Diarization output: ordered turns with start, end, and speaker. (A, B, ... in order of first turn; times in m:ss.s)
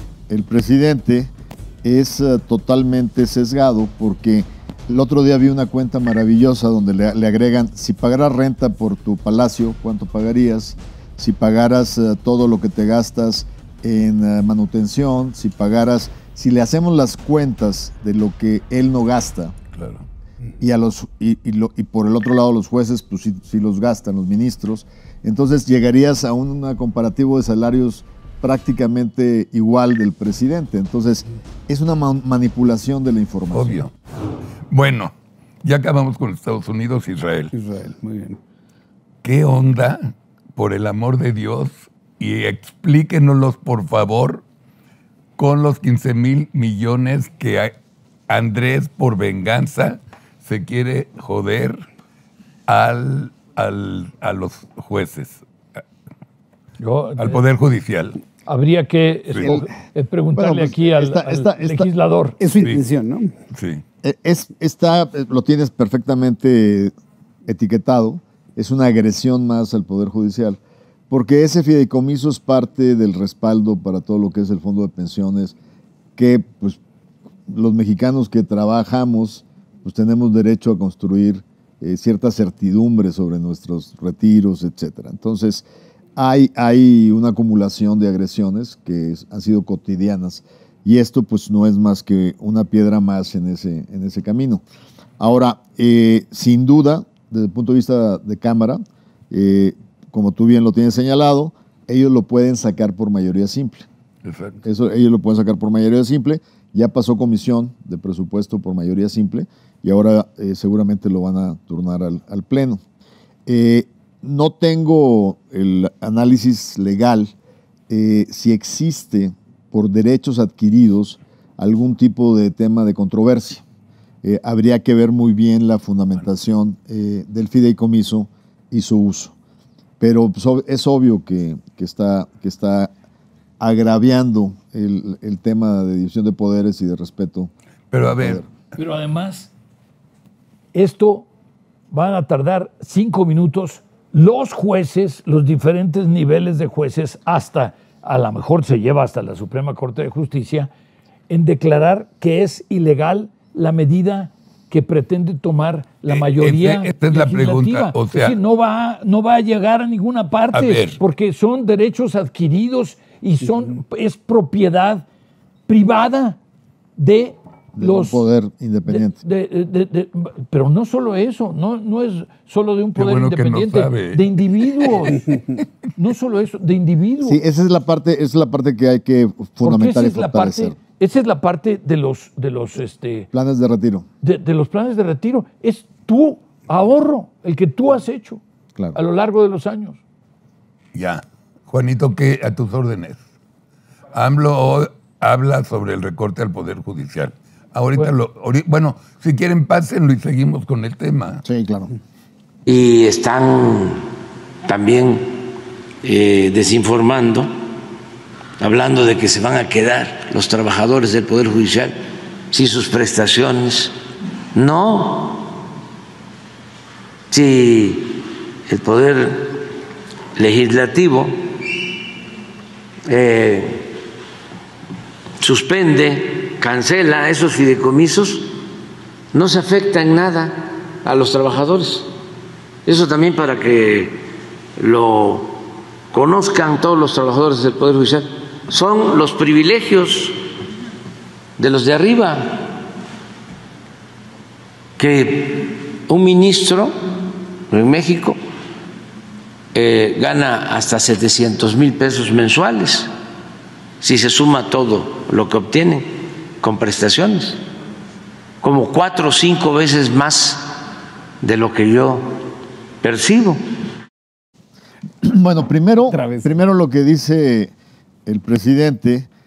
0:00.3-0:01.3 A
0:01.8-0:19.5 A
0:19.7-0:20.0 B
0:20.6-0:33.8 A
0:33.5-0:33.9 B
0:34.7-0:37.5 B
0:37.5-0:38.4 C
0:39.2-0:44.4 B
0:45.4-0:47.7 B
0:48.3-0:51.8 B
0:52.7-0:55.8 B
0:56.8-0:57.4 D
0:57.2-0:58.2 B
0:58.4-1:02.4 D
0:59.4-0:59.6 A
1:00.3-1:01.9 A
1:02.4-1:03.3 C
1:03.5-1:03.8 B
1:04.0-1:06.9 A
1:07.4-1:10.6 A
1:11.1-1:15.6 A
1:16.2-1:16.8 A
1:17.5-1:34.6 A
1:35.2-1:43.9 A
1:44.2-1:44.6 B
1:44.6-1:52.8 A
1:53.4-1:57.3 A
1:57.9-2:03.6 A
2:04.2-2:09.3 A
2:10.0-2:12.9 A
2:13.6-2:17.5 A
2:17.9-2:18.4 B
2:18.1-2:18.5 A
2:18.7-2:19.5 D
2:20.7-2:21.3 D
2:21.9-2:30.7 D
2:31.3-2:45.0 D
2:36.0-2:38.4 B
2:40.5-2:41.0 B
2:45.7-2:46.4 D
2:47.0-2:48.2 D
2:47.7-2:49.2 A
2:48.8-2:55.4 D
2:53.0-2:55.6 B
2:56.0-2:57.4 D
2:57.2-3:00.8 A
2:59.6-3:03.3 D
3:03.3-3:04.1 A
3:04.2-3:08.4 D
3:08.9-3:10.0 D
3:10.9-3:13.2 B
3:14.1-3:21.4 B
3:21.4-3:21.9 A
3:22.6-3:24.0 E
3:24.6-3:25.4 E
3:26.0-3:27.5 E
3:28.6-3:32.0 E
3:32.5-3:33.9 E
3:34.5-3:35.6 E
3:37.3-3:39.7 E
3:40.4-3:41.7 E
3:43.1-3:43.9 E
3:45.4-3:48.5 E
3:49.3-3:52.1 E
3:52.8-3:54.2 E
3:54.8-3:55.6 E
3:56.1-4:00.4 E
4:01.6-4:02.7 E
4:05.0-4:06.9 E
4:07.7-4:08.4 E
4:09.7-4:13.1 E
4:14.0-4:16.1 E
4:16.6-4:17.6 E
4:18.6-4:20.6 E
4:21.4-4:22.2 E
4:23.0-4:23.6 E
4:25.2-4:27.7 A
4:26.1-4:26.6 C
4:28.2-4:29.3 A